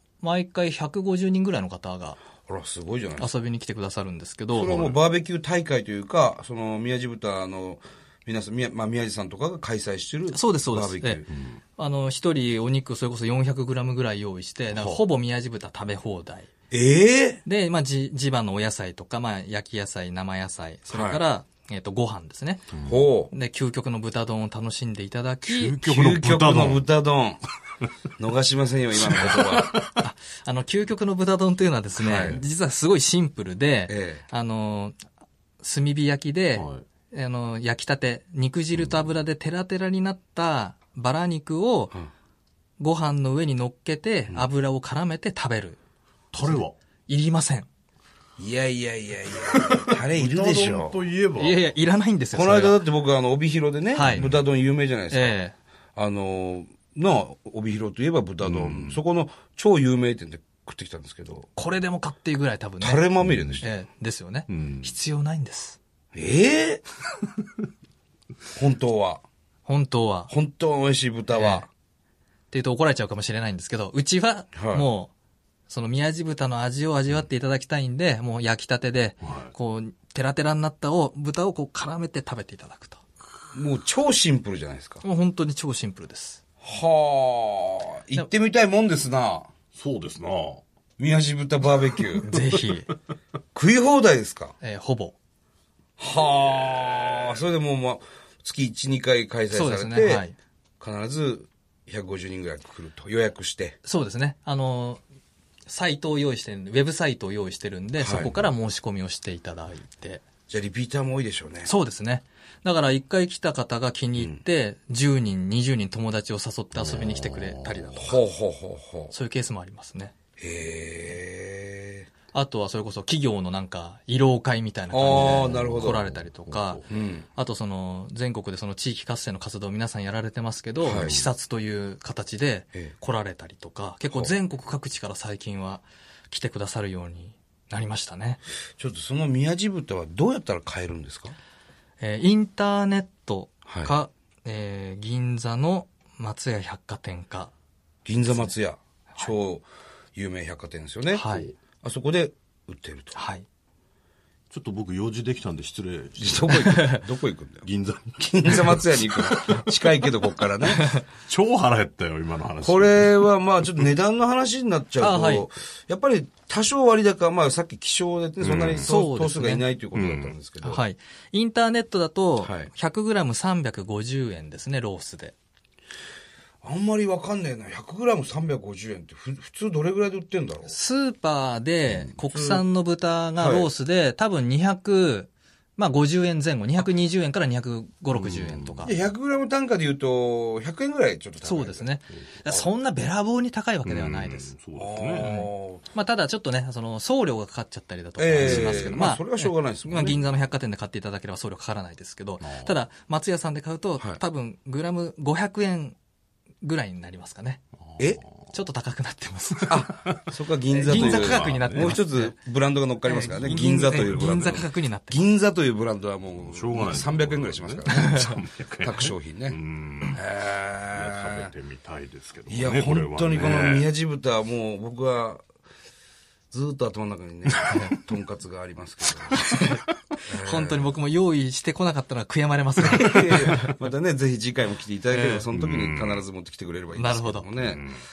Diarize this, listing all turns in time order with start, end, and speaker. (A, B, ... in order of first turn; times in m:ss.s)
0:00.2-0:02.2 A
0:02.5-0:03.3 B
0:03.2-0:04.9 A
0:04.5-0:11.3 B
0:10.3-0:11.2 A
0:11.8-0:16.5 A
0:14.7-0:15.0 B
0:16.7-0:17.4 B
0:17.4-0:22.7 A
0:20.9-0:21.2 B
0:22.8-0:23.3 B
0:23.3-0:25.8 A
0:25.4-0:26.8 C
0:25.8-0:27.4 B
0:28.2-0:29.8 B
0:29.0-0:30.0 C
0:30.0-0:35.0 A
0:32.0-0:32.4 B
0:33.9-0:34.2 B
0:35.6-0:41.9 A
0:36.5-0:36.8 C
0:42.8-0:45.8 A
0:46.3-0:46.7 C
0:46.4-0:47.7 A
0:48.4-0:51.0 B
0:49.5-0:51.6 C
0:51.4-0:52.8 A
0:52.3-0:55.4 B
0:53.9-0:54.3 A
0:54.1-0:54.4 C
0:55.1-0:55.5 A
0:56.0-1:01.5 B
0:58.4-0:59.0 C
1:01.6-1:03.0 A
1:02.8-1:03.7 B
1:03.2-1:03.6 C
1:03.6-1:05.8 A
1:04.5-1:04.9 C
1:06.1-1:06.8 B
1:08.5-1:09.2 B
1:09.6-1:10.3 A
1:10.3-1:11.7 B
1:11.3-1:11.6 A
1:12.5-1:15.1 A
1:14.5-1:14.8 B
1:15.7-1:23.0 A
1:23.5-1:25.0 B
1:25.0-1:26.4 A
1:26.6-1:29.5 B
1:29.7-1:30.6 C
1:31.0-1:32.3 B
1:32.2-1:32.9 A
1:33.5-1:34.6 B
1:34.6-1:35.1 A
1:36.0-1:40.2 B
1:39.5-1:40.3 A
1:40.8-1:43.8 B
1:43.8-1:45.0 A
1:45.7-1:50.2 A
1:48.0-1:48.3 B
1:50.5-1:51.7 B
1:51.6-1:58.2 A
1:56.7-1:58.1 C
1:58.0-1:59.1 B
1:59.1-2:00.1 A
2:00.4-2:02.1 B
2:02.3-2:18.4 A
2:04.9-2:06.0 B
2:05.1-2:06.9 C
2:06.9-2:07.2 B
2:10.8-2:11.1 B
2:10.8-2:11.3 C
2:18.8-2:21.4 B
2:22.0-2:27.5 A
2:23.7-2:23.9 B
2:28.0-2:33.1 B
2:31.1-2:31.5 A
2:33.1-2:33.4 A
2:34.5-2:36.9 C
2:36.2-2:37.6 B
2:36.6-2:37.0 A
2:37.6-2:39.7 C
2:38.2-2:40.9 B
2:40.8-2:41.0 A
2:41.3-2:43.9 C
2:42.6-2:50.8 B
2:45.0-2:45.4 A
2:48.4-2:48.9 C
2:48.8-2:49.6 A
2:49.9-2:50.4 C
2:50.6-2:55.3 A
2:52.4-2:52.7 B
2:56.6-3:00.7 B
3:00.7-3:08.9 A
3:02.2-3:02.6 B
3:03.4-3:03.7 B
3:08.1-3:08.9 C
3:08.8-3:11.9 B
3:11.4-3:14.5 A
3:13.8-3:15.3 C
3:14.8-3:15.8 B
3:15.2-3:26.0 A
3:18.2-3:20.2 B
3:18.4-3:19.1 C
3:22.4-3:22.7 C
3:26.6-3:27.6 A
3:27.8-3:28.4 C
3:28.5-3:29.9 A
3:29.7-3:39.6 B
3:30.7-3:32.4 A
3:30.9-3:32.0 C
3:33.0-3:35.2 A
3:33.8-3:34.6 C
3:36.4-3:40.2 C
3:37.9-3:38.4 A
3:40.1-3:41.5 B
3:40.9-3:43.9 C
3:42.5-3:45.4 B
3:46.5-3:49.4 B
3:47.7-3:47.9 A
3:49.3-3:53.7 A
3:50.2-3:50.9 B
3:52.8-3:57.8 B
3:55.1-3:55.4 A
3:55.5-3:56.2 C
3:57.0-3:57.4 A
3:57.6-3:58.0 C